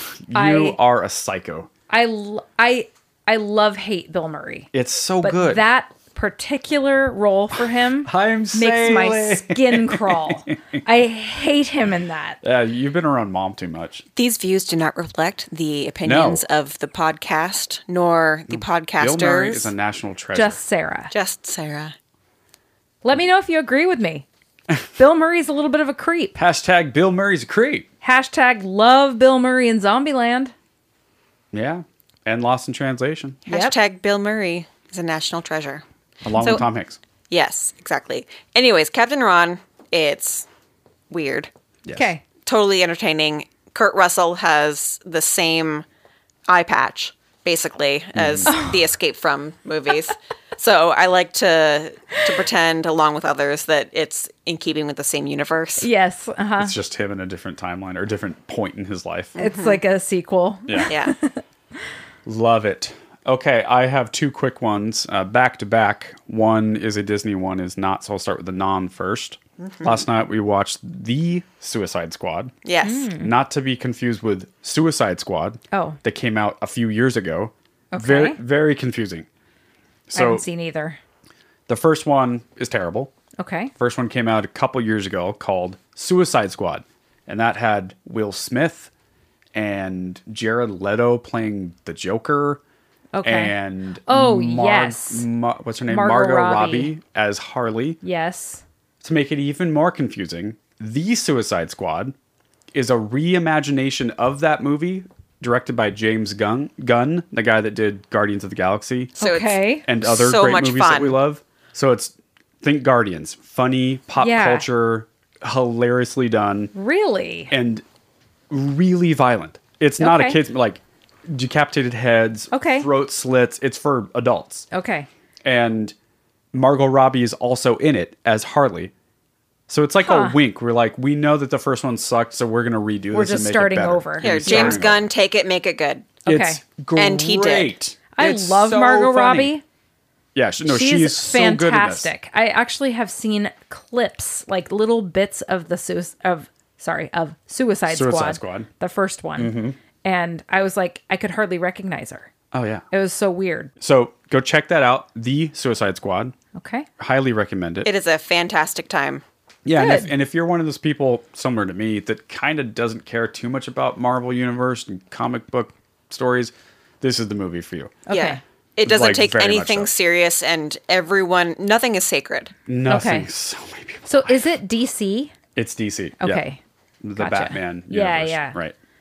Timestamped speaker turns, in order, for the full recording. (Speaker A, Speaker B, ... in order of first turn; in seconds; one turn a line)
Speaker A: 0.2-1.7
Speaker B: 0.3-0.8
Speaker B: 1.9-4.7
Speaker A: 4.7-5.6
Speaker B: 5.2-12.4
Speaker A: 8.0-10.8
Speaker A: 12.4-14.0
Speaker C: 14.2-19.7
Speaker A: 16.0-16.4
Speaker A: 18.5-20.6
Speaker B: 20.3-21.1
Speaker C: 21.1-21.9
Speaker B: 23.0-24.2
Speaker B: 24.9-26.4
Speaker A: 26.4-27.9
Speaker B: 28.0-30.5
Speaker A: 31.5-33.4
Speaker C: 33.5-36.7
Speaker B: 33.5-33.8
Speaker A: 36.2-37.0
Speaker C: 37.3-40.5
Speaker C: 41.1-41.5
Speaker A: 41.8-42.1
Speaker B: 41.9-42.2
Speaker C: 42.5-45.8
Speaker C: 46.5-55.9
Speaker A: 48.1-48.5
Speaker B: 48.4-48.8
Speaker B: 55.8-56.7
Speaker A: 56.6-59.4
Speaker C: 59.4-59.8
Speaker B: 59.4-61.4
Speaker C: 60.9-61.1
Speaker A: 62.2-72.5
Speaker C: 69.6-69.9
Speaker C: 72.6-73.1
Speaker B: 72.8-73.3
Speaker A: 73.2-79.3
Speaker B: 75.7-76.0
Speaker B: 77.9-78.4
Speaker A: 80.1-80.5
Speaker B: 80.1-81.0
Speaker A: 81.7-83.1
Speaker B: 83.4-83.7
Speaker A: 83.8-88.9
Speaker A: 89.5-92.6
Speaker B: 93.1-93.5
Speaker A: 93.2-98.0
Speaker B: 94.1-95.2
Speaker B: 95.9-96.9
Speaker B: 98.0-98.6
Speaker A: 99.0-102.1
Speaker A: 102.7-109.2
Speaker B: 109.2-109.9
Speaker C: 109.2-111.2
Speaker A: 109.8-116.7
Speaker B: 114.2-114.7
Speaker B: 116.7-117.5
Speaker A: 117.5-117.8
Speaker A: 118.5-124.7
Speaker B: 120.0-120.4
Speaker B: 122.5-122.9
Speaker B: 124.7-125.1
Speaker A: 125.4-125.9
Speaker A: 126.5-128.9
Speaker A: 129.7-135.1
Speaker B: 130.0-130.4
Speaker B: 133.1-134.8
Speaker C: 134.2-136.2
Speaker B: 136.2-136.6
Speaker A: 136.2-139.5
Speaker C: 136.9-137.8
Speaker B: 138.1-139.6
Speaker A: 140.3-142.1
Speaker B: 140.7-152.3
Speaker A: 147.9-148.7
Speaker A: 149.4-149.8
Speaker A: 152.5-152.8
Speaker B: 152.9-153.7
Speaker A: 153.8-156.3
Speaker B: 156.5-156.9
Speaker A: 157.0-157.9
Speaker C: 157.8-159.2
Speaker A: 159.6-168.0
Speaker B: 159.7-160.1
Speaker B: 168.1-168.4
Speaker C: 168.1-172.5
Speaker A: 168.8-169.9
Speaker A: 172.7-174.5
Speaker B: 172.8-173.3
Speaker B: 174.1-175.3
Speaker A: 175.6-176.4
Speaker B: 176.2-176.6
Speaker A: 177.0-178.7
Speaker B: 177.2-178.6